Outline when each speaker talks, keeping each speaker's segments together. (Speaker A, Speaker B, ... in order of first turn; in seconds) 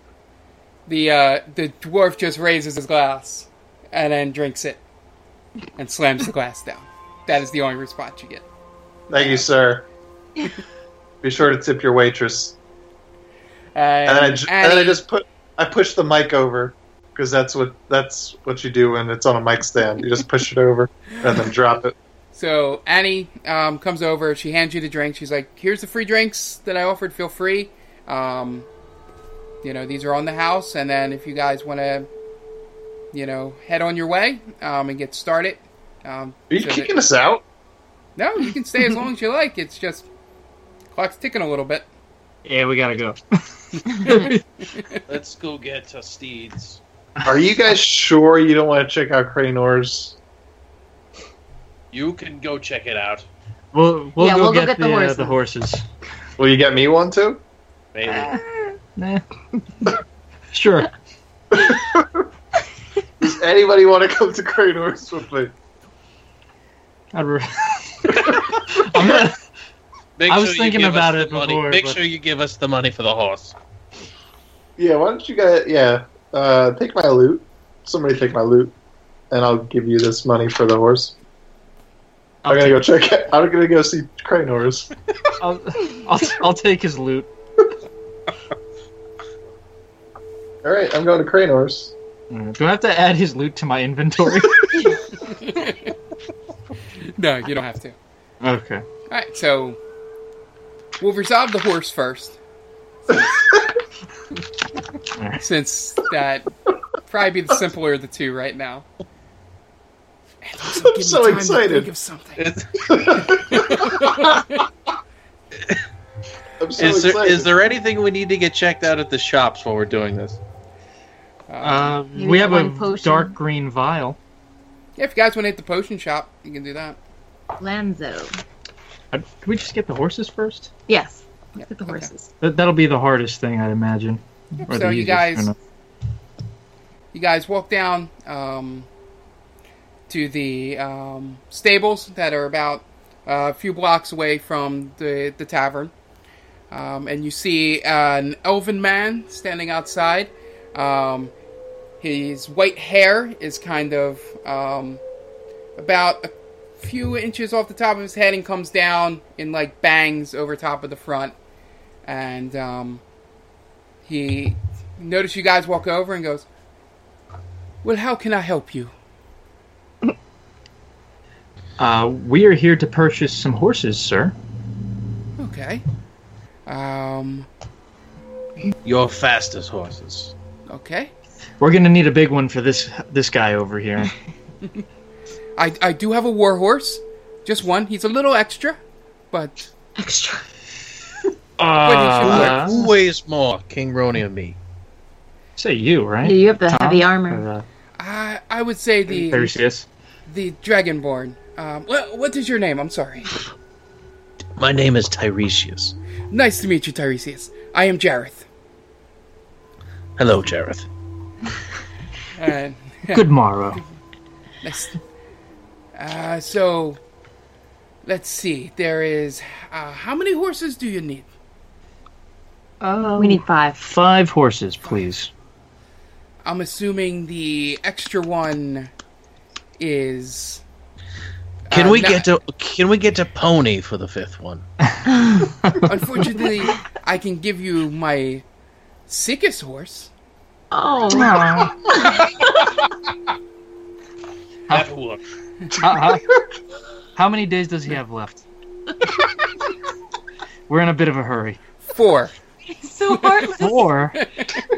Speaker A: 0.9-4.8, 5.8-8.5, 9.1-9.4, 13.8-15.0, 22.3-28.7, 29.6-32.1, 33.1-37.0, 38.2-40.1, 40.9-41.9, 43.7-45.0, 95.2-95.9, 97.2-98.0, 99.1-99.8, 101.0-102.4, 105.4-106.5, 107.1-108.9, 110.4-112.4, 113.5-114.4, 121.5-122.0, 125.0-127.0, 131.6-132.1, 134.6-135.5, 137.1-138.9, 140.1-145.9, 146.7-151.3, 152.0-155.0, 155.8-161.4, 162.1-163.0, 164.1-166.5, 167.8-168.9, 175.4-175.8, 176.7-177.5, 180.7-181.1, 185.6-188.8, 191.8-192.7, 198.0-199.6, 200.3-203.3, 206.3-208.5, 212.3-213.2, 214.6-215.0, 216.0-217.0, 218.1-221.3, 224.8-225.1, 226.5-228.9, 229.8-230.6, 231.7-232.3, 235.8-238.4, 239.1-240.1, 251.9-252.3, 253.1-253.6
Speaker B: 9.1-9.9, 11.2-12.6, 14.1-21.9, 36.5-37.4, 47.2-50.2, 56.4-57.4, 61.5-62.3, 63.2-65.5, 74.8-78.7, 79.3-81.2, 82.5-85.3, 90.6-92.0, 103.1-103.6, 110.7-111.9, 112.9-114.3, 116.6-117.5
Speaker C: 42.5-44.4, 53.7-55.8, 58.1-59.2, 60.5-60.9, 67.1-69.4, 70.3-72.0, 82.4-82.8, 85.4-87.3, 92.3-94.8, 98.4-98.8, 105.2-105.4, 121.6-124.2, 129.1-130.7, 132.4-135.6, 171.8-174.3, 181.6-184.1, 191.6-192.8, 195.6-197.7, 199.1-199.9, 213.1-213.8, 222.8-225.3, 235.6-235.9, 241.1-241.9, 245.8-246.3, 247.2-248.4, 250.7-251.6, 253.5-254.2
Speaker D: 45.1-46.8, 51.9-53.3, 57.9-58.4, 70.2-73.6, 112.4-113.4, 116.8-120.4, 178.8-180.3, 192.2-194.6, 204.6-206.0, 210.2-210.9, 231.7-234.7, 244.7-245.2
Speaker E: 54.2-55.4, 122.2-123.3, 127.6-128.4, 130.9-132.3, 190.0-190.4, 196.2-197.4, 223.2-223.8, 235.2-235.4, 240.7-242.7, 252.7-253.9